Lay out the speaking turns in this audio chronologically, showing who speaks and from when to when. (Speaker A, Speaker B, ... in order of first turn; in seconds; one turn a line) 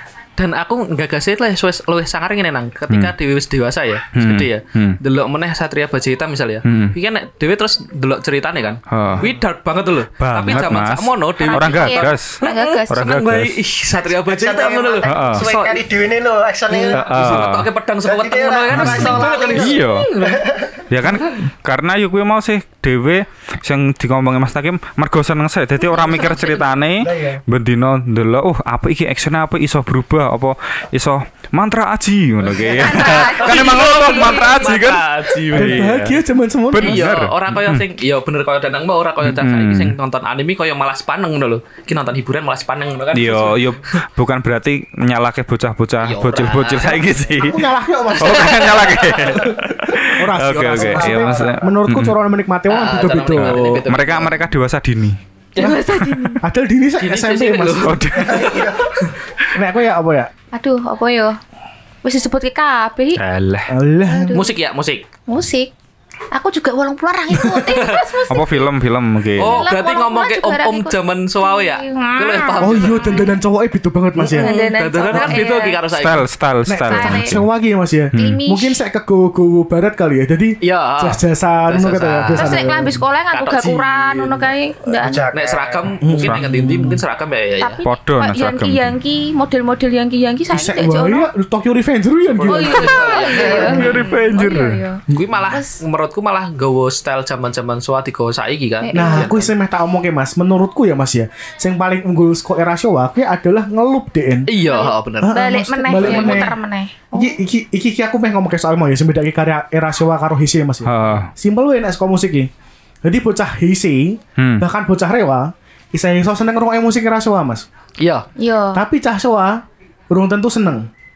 Speaker A: 0.4-15.8
Speaker B: 2.9-3.1
Speaker B: 4.2-5.0
Speaker B: 6.7-7.0
Speaker B: 8.9-9.3
Speaker B: 10.2-13.6
Speaker C: 11.4-12.9
Speaker D: 14.2-17.4
Speaker B: 15.0-15.5
Speaker A: 16.7-20.4
Speaker B: 16.9-17.7
Speaker D: 18.0-20.8
Speaker B: 18.7-20.1
Speaker B: 20.9-36.2
Speaker C: 25.9-26.6
Speaker D: 27.0-27.4
Speaker C: 32.8-34.8
Speaker A: 33.5-36.0
Speaker E: 35.5-37.0
Speaker B: 36.7-37.9
Speaker A: 36.8-44.0
Speaker B: 39.2-40.0
Speaker B: 43.1-47.6
Speaker A: 46.0-47.3
Speaker E: 47.4-49.6
Speaker B: 48.2-52.2
Speaker A: 48.4-49.3
Speaker E: 50.1-53.9
Speaker D: 50.8-51.5
Speaker A: 52.7-54.4
Speaker B: 53.4-55.2
Speaker C: 55.6-56.4
Speaker B: 55.9-56.3
Speaker E: 56.4-58.4
Speaker A: 57.0-59.1
Speaker B: 57.8-58.7
Speaker D: 58.3-59.0
Speaker E: 59.5-60.3
Speaker C: 60.5-61.4
Speaker C: 62.0-63.2
Speaker B: 63.1-63.7
Speaker E: 63.7-64.4
Speaker C: 64.1-64.5
Speaker A: 64.3-65.0
Speaker C: 65.3-65.7
Speaker C: 66.3-68.7
Speaker E: 67.3-67.7
Speaker A: 67.7-68.1
Speaker B: 68.3-69.7
Speaker A: 69.4-73.3
Speaker C: 69.4-73.3
Speaker E: 72.6-74.5
Speaker A: 74.2-76.3
Speaker C: 74.3-75.8
Speaker E: 75.1-75.4
Speaker B: 75.9-77.5
Speaker E: 76.7-83.0
Speaker C: 76.8-77.4
Speaker B: 78.1-78.4
Speaker C: 78.2-78.8
Speaker A: 80.6-82.6
Speaker C: 82.4-85.2
Speaker A: 83.3-84.4
Speaker D: 85.0-85.9
Speaker A: 85.3-87.8
Speaker E: 86.0-87.0
Speaker B: 86.2-86.5
Speaker C: 87.6-91.3
Speaker B: 87.8-88.9
Speaker E: 90.5-93.0
Speaker A: 92.3-94.0
Speaker C: 92.5-95.8
Speaker D: 93.3-94.0
Speaker B: 93.5-94.8
Speaker E: 95.1-95.4
Speaker A: 95.1-99.5
Speaker C: 98.8-99.3
Speaker E: 98.9-104.5
Speaker A: 104.5-105.4
Speaker C: 104.7-107.4
Speaker E: 105.2-106.6
Speaker A: 105.9-106.5
Speaker E: 107.1-112.5
Speaker B: 110.8-111.3
Speaker E: 113.0-117.7
Speaker B: 114.4-114.7
Speaker A: 118.0-118.3
Speaker C: 118.4-118.8
Speaker E: 118.7-120.9